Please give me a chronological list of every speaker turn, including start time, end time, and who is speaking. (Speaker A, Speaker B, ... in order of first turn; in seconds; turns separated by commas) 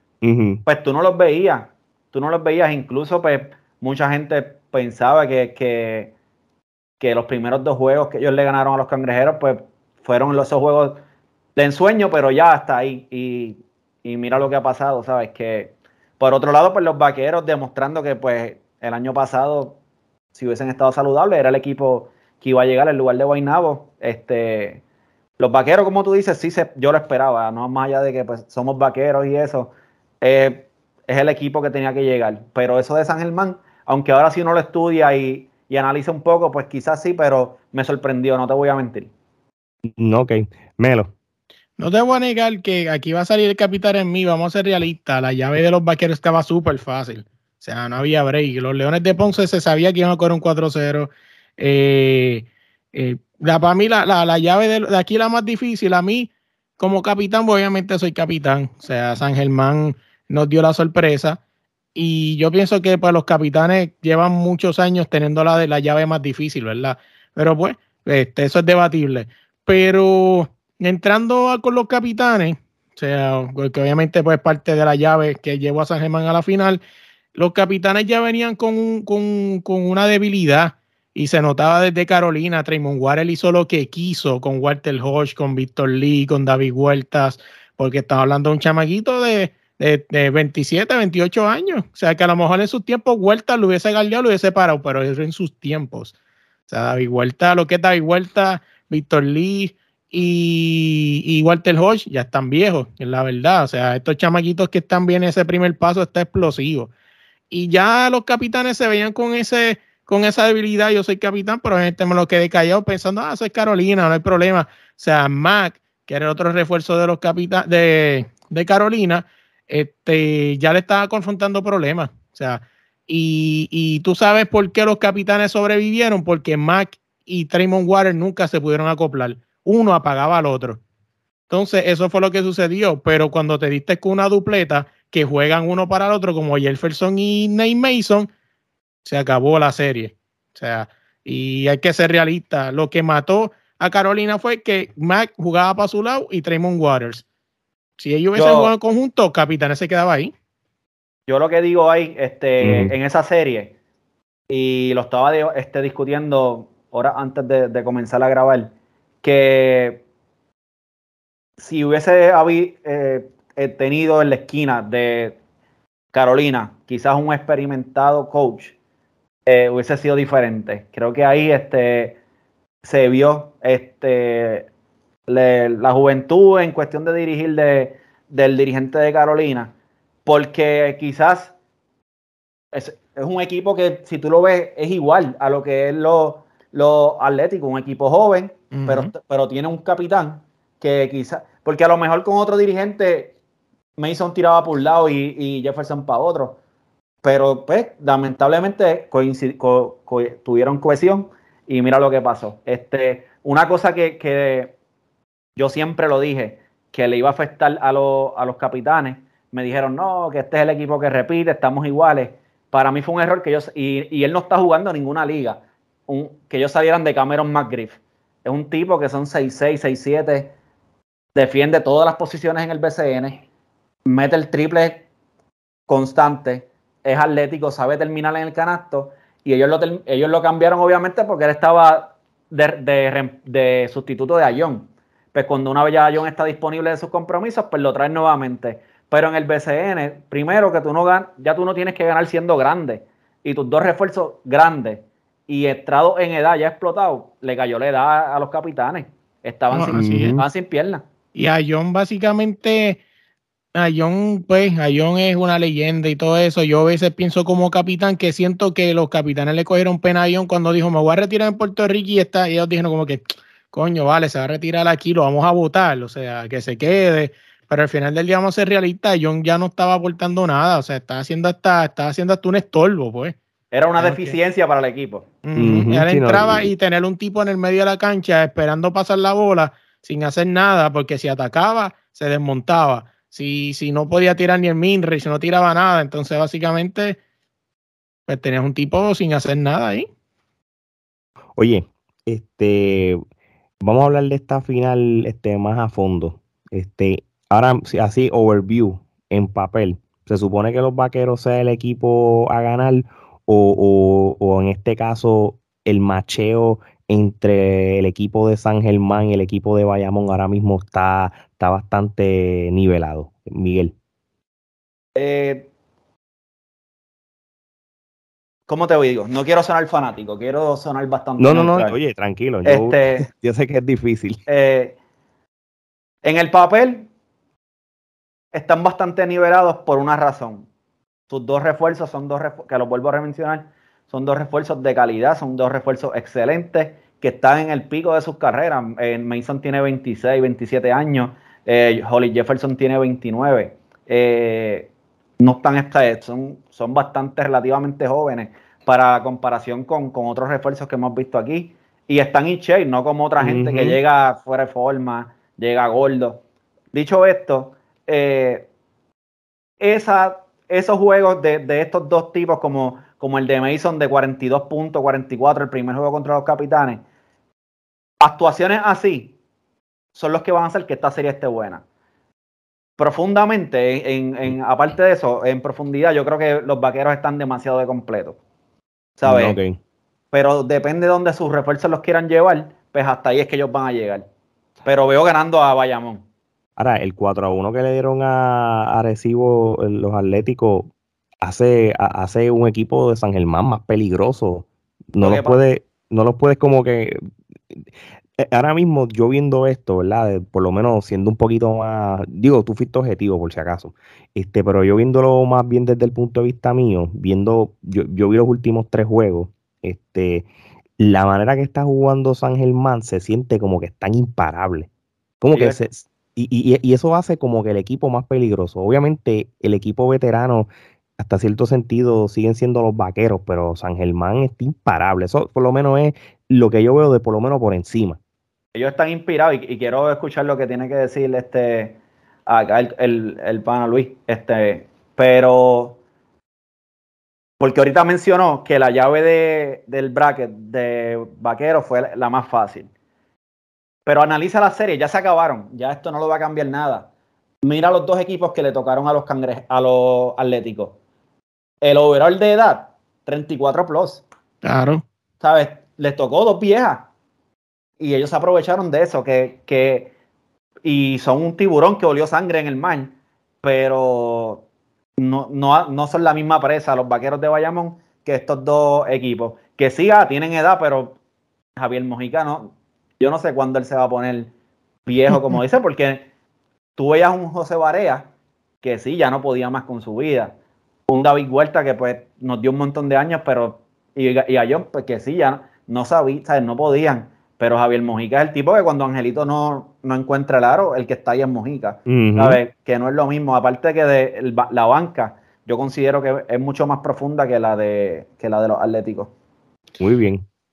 Speaker A: 0.2-0.6, Speaker B: 0.7-6.1, Speaker B: 7.0-11.0, Speaker B: 11.6-19.8, Speaker B: 20.3-24.8, Speaker B: 25.4-39.1, Speaker A: 39.9-41.1, Speaker C: 41.8-61.4, Speaker C: 62.0-76.8, Speaker C: 77.3-96.1, Speaker C: 96.7-106.9, Speaker C: 107.5-130.8, Speaker C: 131.5-138.3, Speaker C: 139.0-147.2, Speaker C: 148.0-150.3, Speaker B: 148.4-148.7, Speaker B: 151.3-153.7, Speaker A: 152.6-152.9, Speaker B: 154.5-160.0, Speaker B: 161.6-165.4, Speaker B: 166.1-168.7, Speaker B: 169.5-172.2, Speaker B: 172.8-174.7, Speaker B: 175.3-179.7, Speaker B: 180.3-181.5, Speaker B: 182.7-193.3, Speaker C: 188.7-189.1, Speaker B: 194.0-196.6, Speaker B: 197.2-204.7, Speaker B: 205.6-220.5, Speaker B: 221.3-223.4, Speaker B: 224.1-225.1, Speaker B: 225.9-251.0, Speaker C: 249.7-250.4, Speaker A: 249.9-250.4, Speaker C: 251.3-253.0, Speaker C: 253.8-273.4, Speaker B: 273.7-275.3, Speaker C: 274.0-274.4, Speaker C: 275.4-287.2, Speaker A: 275.6-276.7, Speaker C: 288.3-290.1, Speaker A: 291.6-293.2, Speaker A: 293.8-313.9, Speaker B: 315.2-315.7, Speaker B: 318.7-321.9, Speaker A: 321.4-324.4, Speaker B: 322.6-323.3, Speaker B: 324.5-325.0, Speaker B: 326.2-327.1, Speaker B: 328.5-330.7, Speaker B: 331.3-356.4, Speaker A: 353.4-354.0, Speaker B: 356.9-358.7, Speaker B: 359.8-367.0, Speaker B: 368.2-369.4, Speaker B: 370.1-371.8, Speaker B: 373.0-378.4, Speaker B: 379.2-379.6, Speaker A: 379.3-379.8, Speaker B: 380.3-384.2, Speaker B: 384.9-386.2, Speaker A: 386.8-390.9, Speaker A: 391.4-397.8, Speaker B: 395.2-395.6, Speaker A: 398.4-410.5, Speaker A: 411.0-414.9, Speaker A: 415.4-428.2, Speaker B: 415.5-415.8, Speaker B: 428.8-436.0, Speaker B: 437.6-442.9, Speaker B: 444.1-447.1, Speaker B: 447.6-451.0, Speaker B: 451.8-454.2, Speaker C: 454.6-455.0, Speaker B: 455.4-457.1, Speaker B: 458.0-460.1, Speaker B: 460.9-464.6, Speaker B: 465.2-471.2, Speaker B: 471.8-474.5, Speaker B: 475.1-476.3, Speaker B: 477.0-478.3, Speaker B: 478.8-480.5, Speaker B: 481.1-499.3, Speaker A: 492.1-492.6, Speaker A: 500.0-500.5